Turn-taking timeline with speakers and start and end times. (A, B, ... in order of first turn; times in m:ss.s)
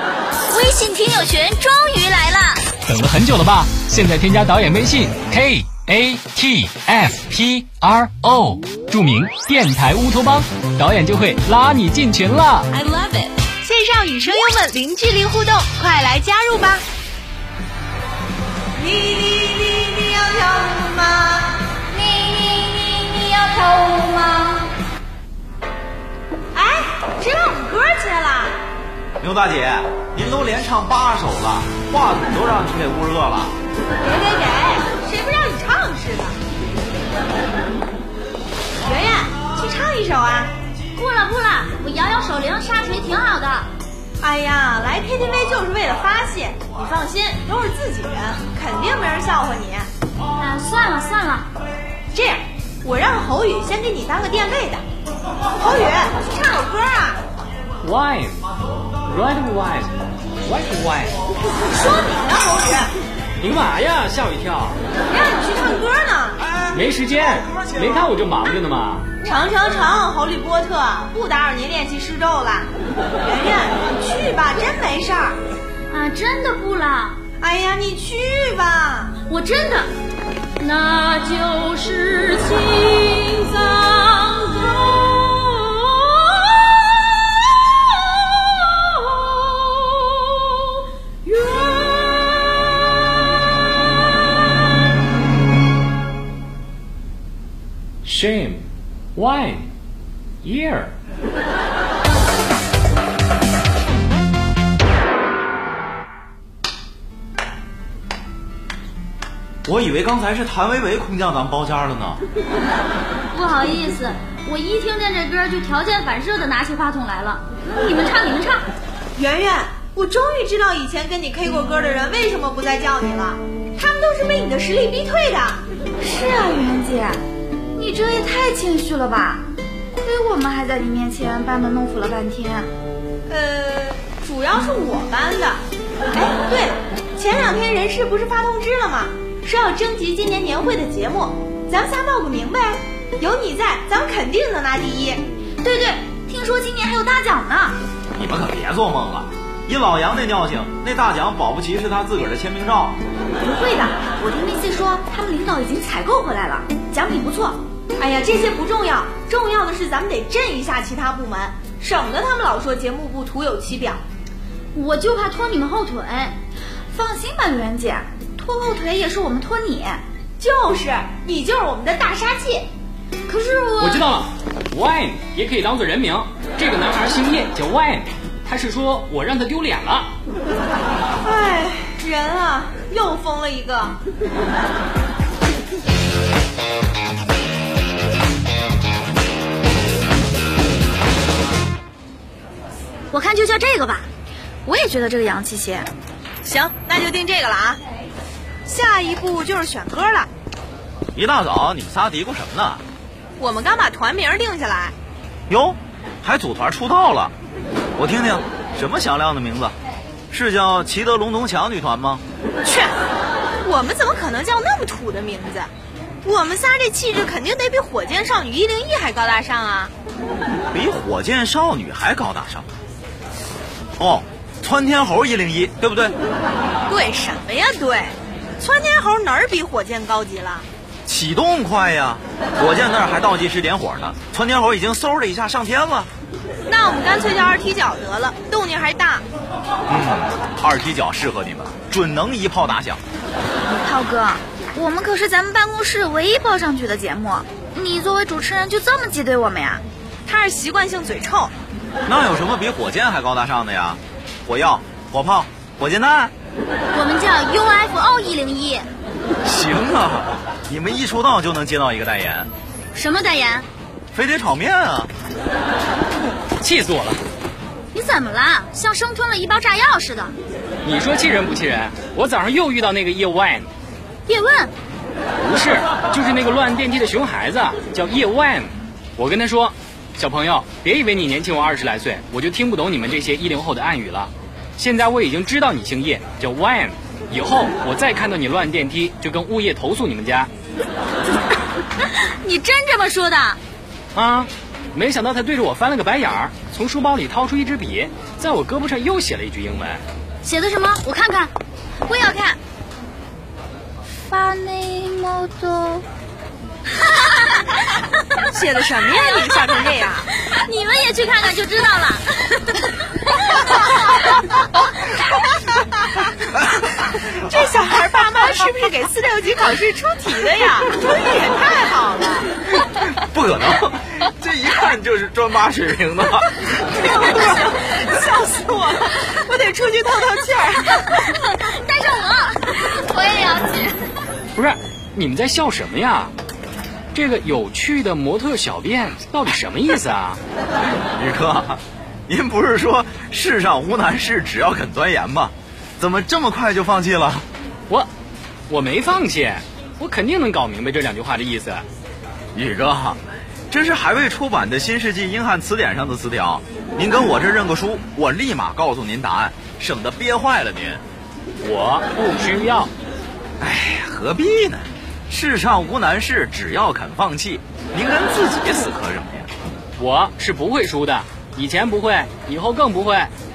0:00.5-0:02.6 A
0:02.8-0:12.7 B
0:12.7-0:16.8 C
0:18.8-0:21.6 C
0:22.0-0:24.5 D
0:26.5-0:28.6 C
0:29.2-0:33.5 E
0:34.0-0:36.3 C
0:38.8-0:40.5 C
0:40.9-0:43.7 A
0:44.2-0:49.9 C
0:50.4-0:51.5 A
0:52.1-0:54.8 C
0:55.6-0:57.2 C
0:57.8-0:58.5 B
0:59.0-1:01.2 B
1:01.7-1:02.9 C
1:03.4-1:04.8 B
1:05.1-1:06.4 C
1:06.7-1:09.1 B
1:07.5-1:08.0 E
1:09.2-1:15.4 C
1:15.9-1:17.2 A
1:17.4-1:19.1 C
1:19.3-1:19.9 A
1:20.6-1:30.5 A
1:31.2-1:32.7 A
1:38.0-1:39.7 B
1:40.4-1:41.0 B
1:49.6-1:52.2 E
1:53.3-1:58.6 A
1:59.2-2:05.6 C
2:06.0-2:07.2 D
2:07.7-2:12.7 D
2:13.3-2:15.6 C
2:16.1-2:25.2 C
2:25.6-2:27.8 D
2:28.1-2:33.0 E
2:33.4-2:37.6 D
2:38.0-2:44.0 C
2:44.7-2:46.4 A
2:46.9-2:50.0 D
2:50.4-2:52.7 C
2:53.3-2:54.1 A
2:53.8-3:00.1 B
3:01.2-3:04.0 C
3:13.1-3:14.1 A
3:14.6-3:15.9 D
3:16.4-3:17.8 C
3:18.6-3:20.3 C
3:21.1-3:22.8 E
3:23.4-3:24.9 C
3:25.5-3:27.3 E
3:28.0-3:29.7 E
3:30.3-3:32.2 E
3:32.6-3:33.0 C
3:33.6-3:35.7 C
3:36.2-3:39.9 C
3:40.7-3:42.6 E
3:44.0-3:46.1 E
3:46.9-3:50.6 C
3:51.0-3:56.1 E
3:56.7-3:59.2 C
3:59.9-4:03.0 E
4:03.7-4:09.8 D
4:10.2-4:11.5 C
4:12.0-4:16.3 E
4:16.9-4:18.9 A
4:19.4-4:22.5 E
4:22.9-4:23.6 A
4:24.1-4:25.1 E
4:26.6-4:27.2 B
4:27.9-4:30.3 A
4:30.8-4:33.7 B
4:34.3-4:34.7 A
4:35.4-4:50.5 B
4:52.4-4:53.6 D
4:54.1-5:00.0 B
5:00.4-5:01.5 A
5:02.1-5:02.6 D
5:04.2-5:06.0 D
5:08.5-5:10.2 C
5:09.1-5:09.9 A
5:10.5-5:14.1 A
5:17.5-5:22.5 C
5:23.2-5:26.8 E
5:27.3-5:27.7 A
5:27.6-5:31.0 C
5:31.0-5:34.2 A
5:34.6-5:36.3 B
5:37.1-5:40.4 B
5:41.0-5:47.4 E
5:48.7-5:51.8 B
5:52.5-6:01.0 E
6:01.6-6:02.9 B
6:03.6-6:09.5 E
6:10.0-6:13.3 B